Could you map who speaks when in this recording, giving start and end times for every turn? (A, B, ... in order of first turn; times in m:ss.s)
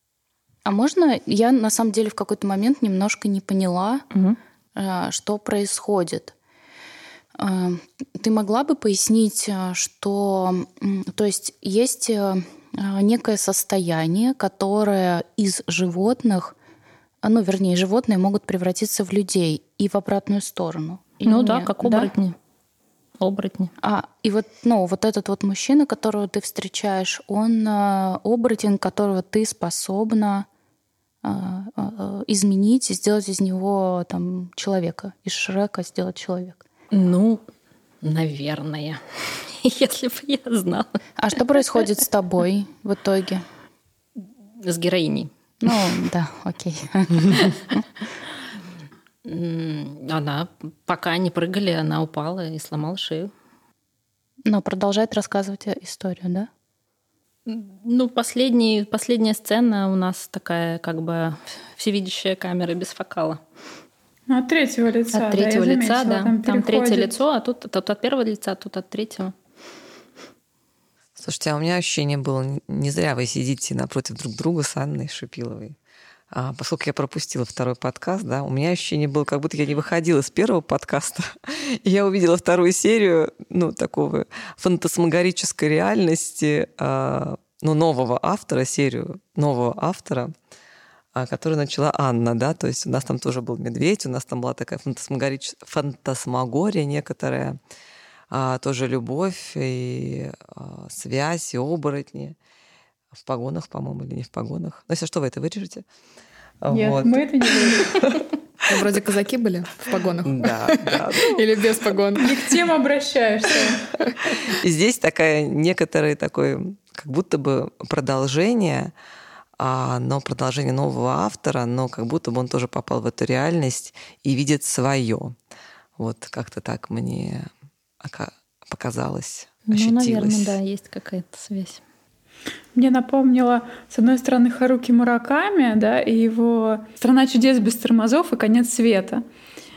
0:00.7-0:04.1 A
0:04.8-0:06.3 A
0:07.4-0:16.6 A
0:17.2-0:22.1 A
0:21.3-0:22.4 B
0:23.2-0:23.7 B
0:23.8-0:30.5 A
0:31.2-0:36.6 A
0:36.9-0:37.4 B
0:38.0-0:41.0 B
0:41.2-0:43.4 A
0:44.6-0:45.3 B
0:45.6-0:47.8 A
0:49.2-0:53.3 B
0:54.4-0:56.5 A
0:57.5-1:03.4 B
1:04.3-1:07.2 C
1:05.1-1:09.3 B
1:11.2-1:15.8 D
1:16.3-1:30.3 D
1:31.2-1:37.6 D
1:38.3-1:42.4 D
1:43.2-1:45.8 D
1:46.6-1:48.2 D
1:46.7-1:48.2 C
1:48.7-1:52.5 E
1:50.2-1:51.6 D
1:52.2-1:53.8 C
1:53.6-1:54.1 E
1:54.6-1:58.9 D
1:59.6-2:05.3 D
2:06.0-2:07.5 D
2:08.0-2:10.6 D
2:09.7-2:11.8 B
2:12.8-2:19.2 C